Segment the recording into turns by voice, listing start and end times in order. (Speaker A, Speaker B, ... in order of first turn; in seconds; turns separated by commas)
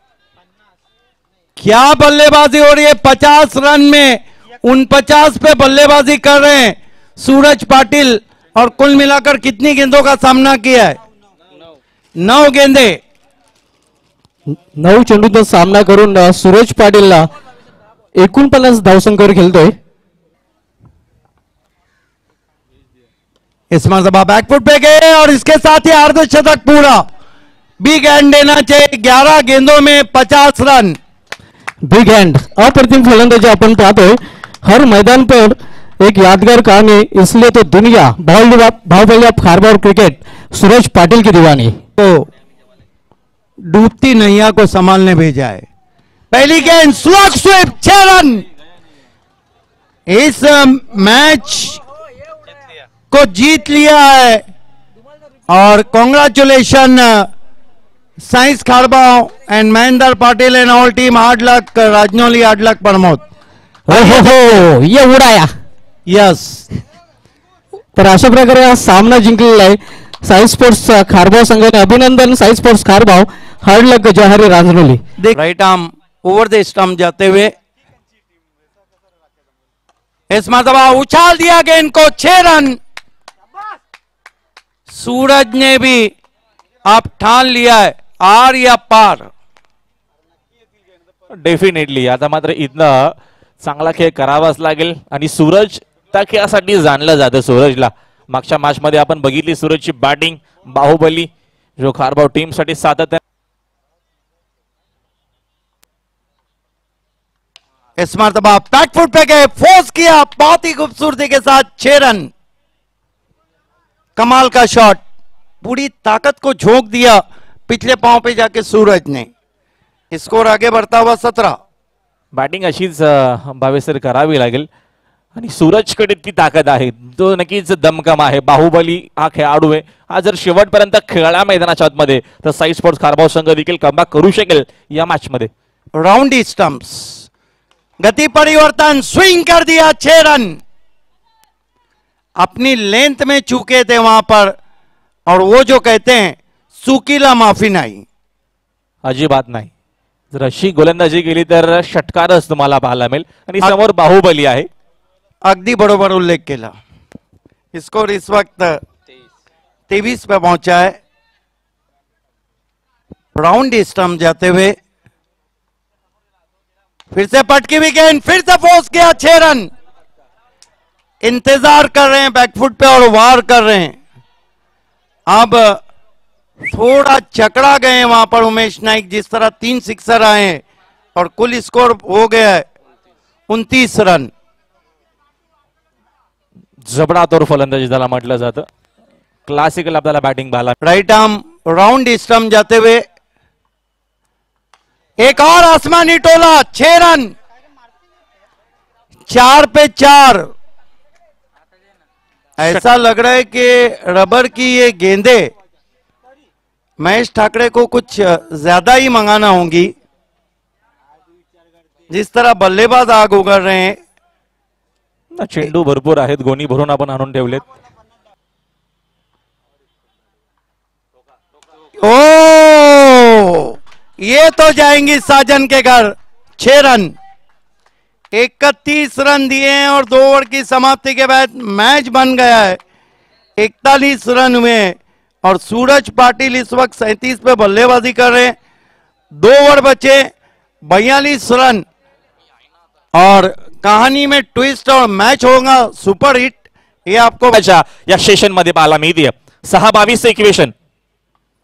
Speaker A: 1.6-11.0, Speaker A: 12.2-13.0, Speaker B: 14.8-17.3, Speaker B: 18.2-19.8, Speaker A: 23.7-27.1, Speaker A: 27.8-31.0, Speaker B: 31.9-41.8, Speaker A: 42.0-42.3, Speaker A: 43.7-45.6, Speaker A: 46.3-48.5, Speaker A: 50.1-51.8, Speaker A: 53.1-54.4, Speaker A: 55.5-57.3, Speaker A: 58.2-63.2, Speaker B: 63.9-65.5, Speaker A: 63.9-64.3, Speaker A: 66.1-66.7, Speaker B: 68.0-75.0, Speaker A: 75.2-77.5, Speaker A: 80.3-82.8, Speaker A: 84.9-86.1, Speaker A: 86.9-89.3, Speaker C: 91.4-93.1, Speaker C: 93.6-103.2, Speaker A: 108.0-112.3, Speaker A: 114.2-115.0, Speaker A: 115.6-119.3, Speaker A: 120.1-121.5, Speaker C: 122.3-124.7, Speaker C: 125.4-135.5, Speaker A: 136.0-137.3, Speaker A: 138.0-140.6, Speaker A: 142.4-144.5, Speaker A: 145.3-148.0, Speaker C: 149.1-149.7, Speaker C: 150.3-154.7, Speaker A: 155.4-156.7, Speaker A: 157.7-158.8, Speaker A: 159.9-160.9, Speaker A: 163.4-164.7, Speaker A: 167.1-169.7, Speaker A: 171.2-174.0, Speaker A: 175.3-175.8, Speaker A: 176.7-180.6, Speaker A: 181.2-182.7, Speaker A: 183.5-184.3, Speaker C: 186.9-188.7, Speaker C: 189.5-190.8, Speaker A: 190.8-193.0, Speaker A: 195.2-197.3, Speaker A: 199.3-200.5, Speaker A: 202.6-205.5, Speaker A: 207.0-209.9, Speaker A: 212.1-214.0, Speaker C: 215.3-217.7, Speaker A: 222.0-227.1, Speaker A: 228.3-232.8, Speaker A: 233.6-238.5, Speaker A: 239.3-240.2, Speaker A: 240.9-241.8, Speaker A: 243.1-247.6, Speaker C: 247.5-250.7